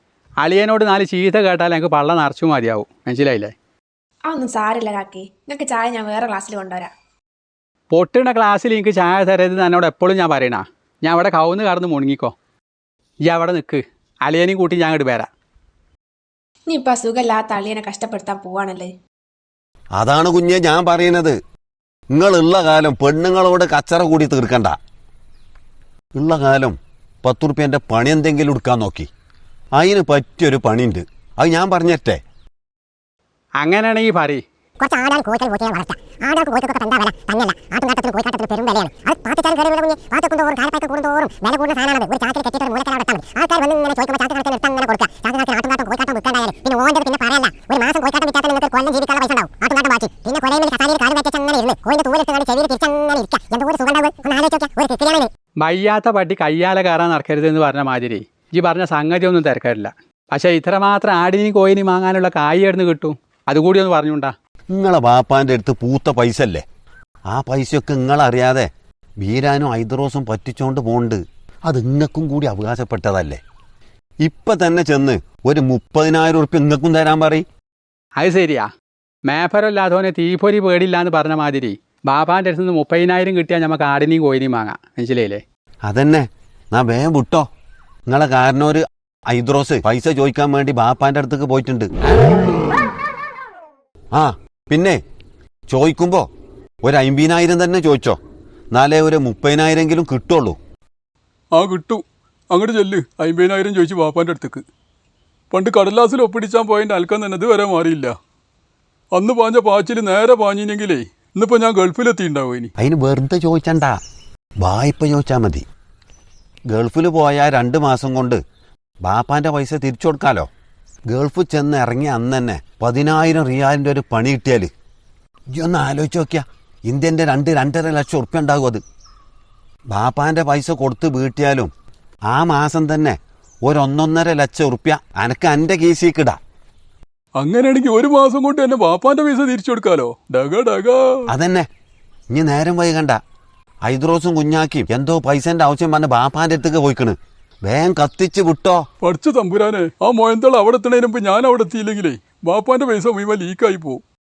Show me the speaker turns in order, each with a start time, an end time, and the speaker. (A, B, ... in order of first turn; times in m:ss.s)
0:00.4-0:03.5 A
0:04.3-0:06.9 B
0:07.9-0:12.3 A
0:13.2-0:15.3 A
0:16.7-0:18.9 B
0:20.0-0:21.3 C
0:22.1-0:24.8 C
0:26.2-0:29.1 C
0:29.8-0:32.2 C
0:33.6-0:34.4 A
0:34.8-0:55.3 D
0:55.6-1:04.3 A
1:04.7-1:06.6 C
1:07.3-1:08.7 C
1:09.2-1:13.4 C
1:14.2-1:17.4 C
1:18.2-1:18.7 A
1:19.3-1:25.4 A
1:25.8-1:27.4 C
1:28.1-1:31.9 C
1:34.1-1:35.0 C
1:35.7-1:36.2 C
1:36.8-1:38.2 C
1:38.7-1:40.6 C
1:41.5-1:44.6 E
1:45.5-1:48.1 E
1:49.1-1:52.7 E
1:52.8-1:54.0 C
1:54.6-1:55.6 C
1:56.7-1:58.4 C
1:59.0-2:00.5 C
2:01.1-2:04.7 C
2:05.5-2:08.8 C
2:09.9-2:11.7 C
2:12.3-2:16.4 C
2:17.4-2:21.2 E
2:21.3-2:21.6 C
2:22.3-2:23.2 C
2:23.8-2:28.8 C
2:29.0-2:34.0 E